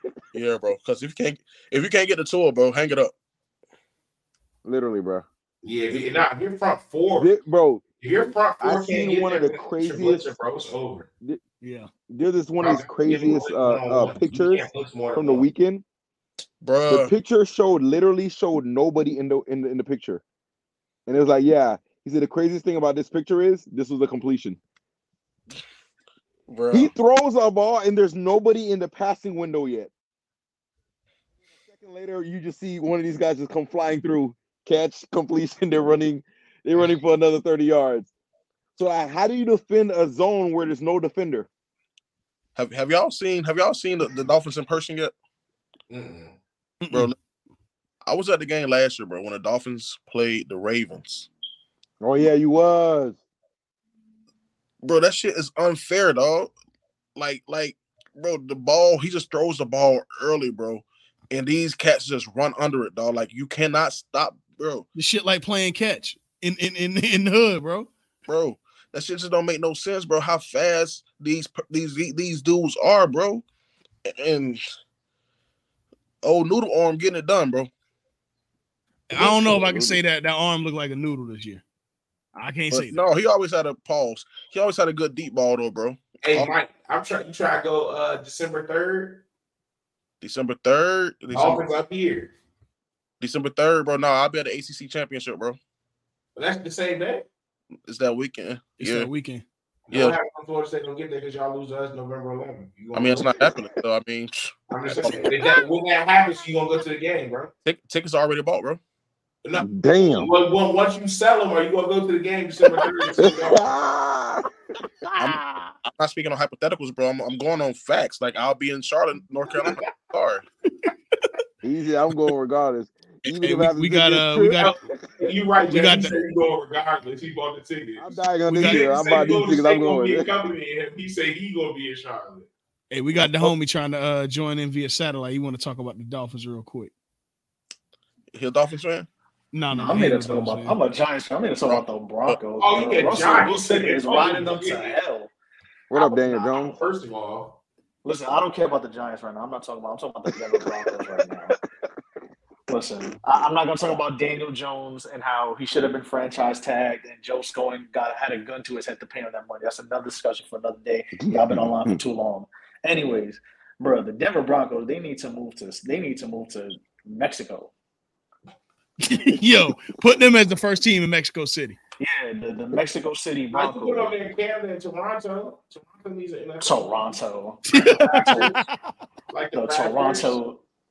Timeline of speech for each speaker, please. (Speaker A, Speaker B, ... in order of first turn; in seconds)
Speaker A: 0.3-3.1, 16.6-17.1, 26.5-26.9, 42.5-45.1, 48.0-51.3, 54.8-56.5, 57.1-64.8, 68.2-73.4, 74.0-74.6, 76.2-77.7, 82.7-86.5, 90.2-91.6, 93.2-95.6, 97.8-99.1, 99.9-100.2, 102.9-105.5, 107.6-108.8, 115.2-120.4, 133.2-133.5, 138.3-139.1, 141.6-142.4
Speaker B: 4.6-5.2, 7.2-7.8, 8.6-10.3, 12.1-15.8, 16.9-20.2, 21.1-24.6, 26.7-29.9, 31.6-38.1, 38.8-41.5, 52.0-53.2, 79.1-80.0, 109.5-110.3, 113.2-114.5, 121.6-124.8, 128.0-130.4, 145.9-146.8, 161.2-162.0
Speaker C: 5.6-7.3, 8.0-11.1, 12.6-15.5, 45.9-46.4, 86.2-89.2, 91.3-92.3, 96.3-97.3, 99.9-103.5, 104.7-107.5, 109.4-113.7, 124.6-132.5, 142.6-145.0, 146.6-147.6, 173.5-177.2, 177.7-178.6, 179.3-180.4
Speaker D: 11.6-11.9, 46.8-47.1, 64.9-67.9, 79.1-81.6, 82.3-83.0, 98.8-99.4, 115.1-115.8, 123.4-124.7, 125.7-126.2, 128.5-128.8, 132.9-136.9, 139.5-140.8, 169.0-171.8, 177.7-178.7
Speaker E: 139.7-145.3, 146.0-146.7, 148.0-151.6, 152.7-167.7, 172.0-174.1, 176.6-178.5, 179.5-180.6